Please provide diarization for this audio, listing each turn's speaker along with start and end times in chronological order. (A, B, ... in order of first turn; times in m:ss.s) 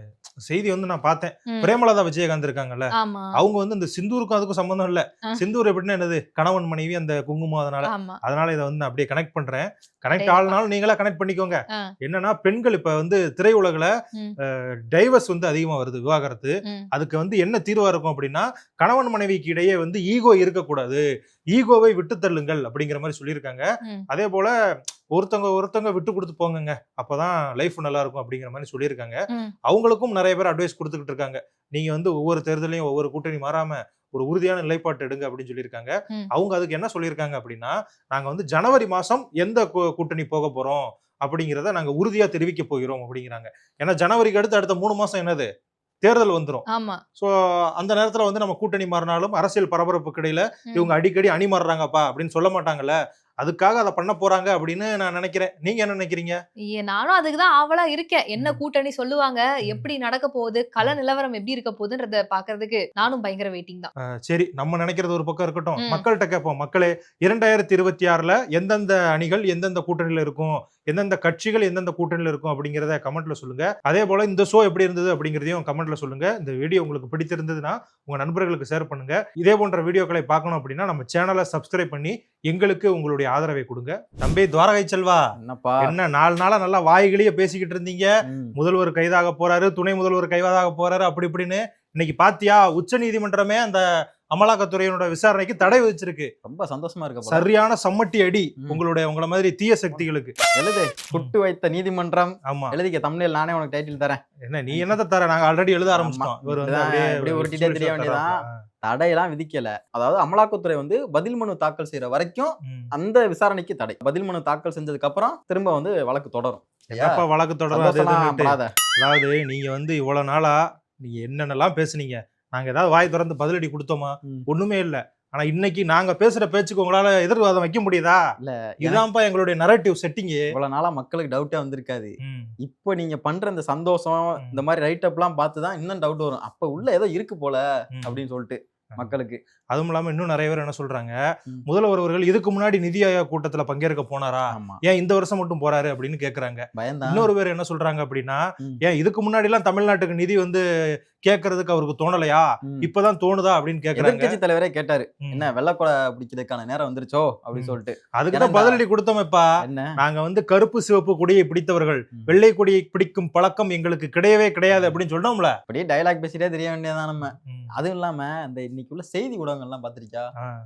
0:00.5-0:13.9 A
0:03.0-0:03.3 B
0:07.9-0:08.2 B
0:10.1-0:10.6 B
0:14.5-0:24.5 A
0:25.1-0:45.5 A
0:46.0-0:46.6 A
0:46.7-0:47.0 B
0:47.2-0:56.4 A
0:56.7-1:03.9 B
1:04.2-1:25.2 A
1:25.4-1:26.0 C
1:25.8-1:36.3 A
1:28.2-1:28.6 C
1:36.4-1:37.5 C
1:37.3-1:40.3 A
1:40.6-1:45.0 C
1:42.5-1:42.7 A
1:44.5-1:48.5 A
1:45.9-1:58.7 C
1:52.6-1:52.9 A
1:56.9-2:08.2 A
2:08.4-2:09.0 C
2:08.8-2:10.5 A
2:10.5-2:19.4 C
2:12.2-2:12.5 A
2:19.7-2:21.2 A
2:21.7-2:30.6 A
2:24.5-2:24.8 C
2:26.8-2:27.3 C
2:31.2-2:34.4 A
2:34.0-2:38.8 C
2:37.6-2:39.5 A
2:39.6-2:39.9 C
2:40.0-2:45.6 A
2:44.7-2:45.0 C
2:45.7-2:50.3 C
2:47.2-2:47.7 A